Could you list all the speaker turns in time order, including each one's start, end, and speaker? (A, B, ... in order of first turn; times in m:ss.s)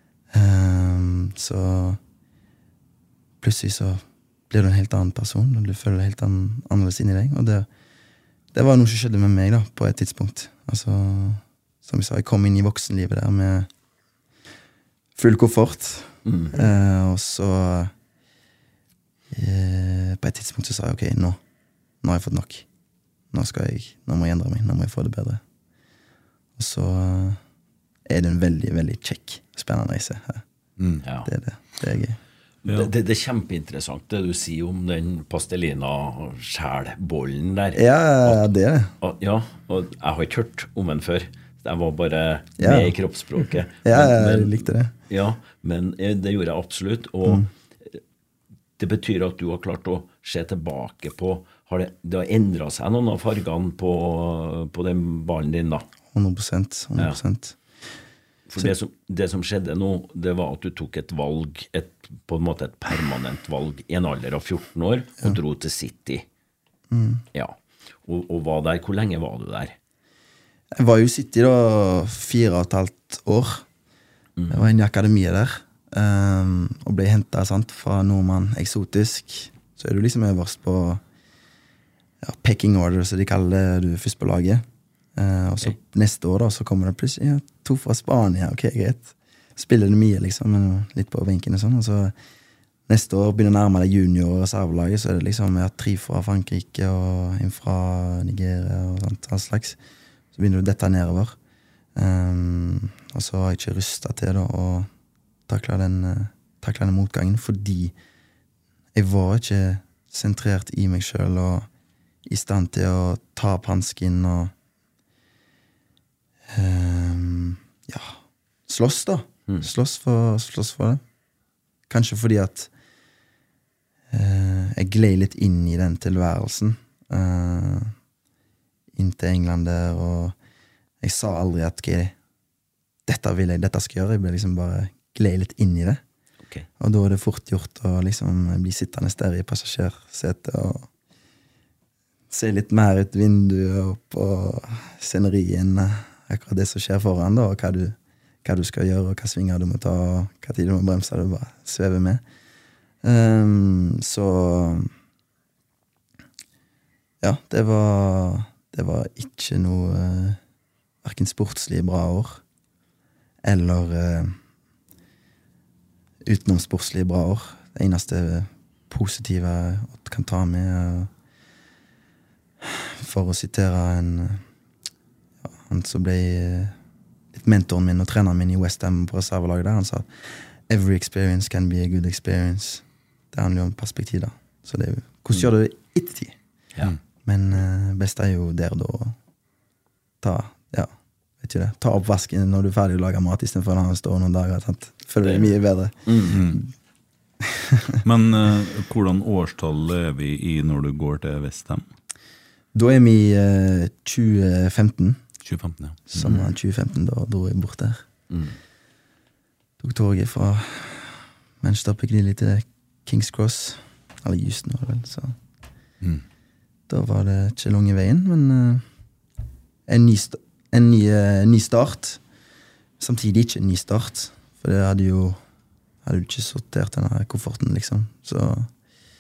0:00.3-0:02.0 A
0:03.4-0:07.7 A
0:08.5-0:13.7 A
0:15.2-0:17.9 A
0:16.3-0:16.6 B
0:19.3-0:21.4 A
0:22.0-0:22.7 A
0:23.3-0:25.4 A
0:26.6-0:27.4 A
0:28.1-0:30.4 A
0:31.0-0:31.3 B
0:31.2-0:32.2 A
0:32.7-0:38.5 B
0:37.7-0:38.9 A
0:39.0-0:48.0 B
0:42.6-0:42.9 A
0:43.8-0:44.9 A
0:48.8-0:55.9 B
0:56.1-0:57.6 A
0:58.5-1:06.2 B
1:06.9-1:07.2 A
1:07.3-1:09.8 B
1:10.8-1:13.7 A
1:14.4-1:14.7 B
1:14.5-1:21.0 A
1:22.2-1:24.6 A
1:25.2-1:32.1 A
1:32.9-1:39.8 A
1:40.3-1:41.4 A
1:42.0-1:44.9 A
1:45.5-1:47.9 A
1:49.0-1:51.7 A
1:52.3-1:54.5 A
1:56.5-2:01.0 A
2:01.9-2:02.7 A
2:04.1-2:08.0 A
2:08.9-2:10.4 A
2:11.0-2:12.1 A
2:13.1-2:16.0 A
2:16.8-2:20.9 A
2:22.3-2:32.2 A
2:33.0-2:34.9 A
2:37.2-2:40.4 A
2:41.0-2:42.4 A
2:43.4-2:44.4 A
2:46.2-2:51.1 A
2:52.6-2:54.4 A
2:55.4-2:56.8 A
2:57.3-3:06.4 A
3:07.2-3:09.2 A
3:10.2-3:16.7 A
3:16.1-3:16.4 B
3:16.3-3:16.6 C
3:17.4-3:18.0 A
3:18.0-3:21.9 C
3:22.7-3:25.2 A
3:25.4-3:26.4 C
3:26.1-3:28.1 A
3:28.3-3:28.6 B
3:29.8-3:35.4 A
3:36.9-3:38.8 A
3:39.9-3:42.2 A
3:43.0-3:45.4 A
3:46.0-3:48.7 A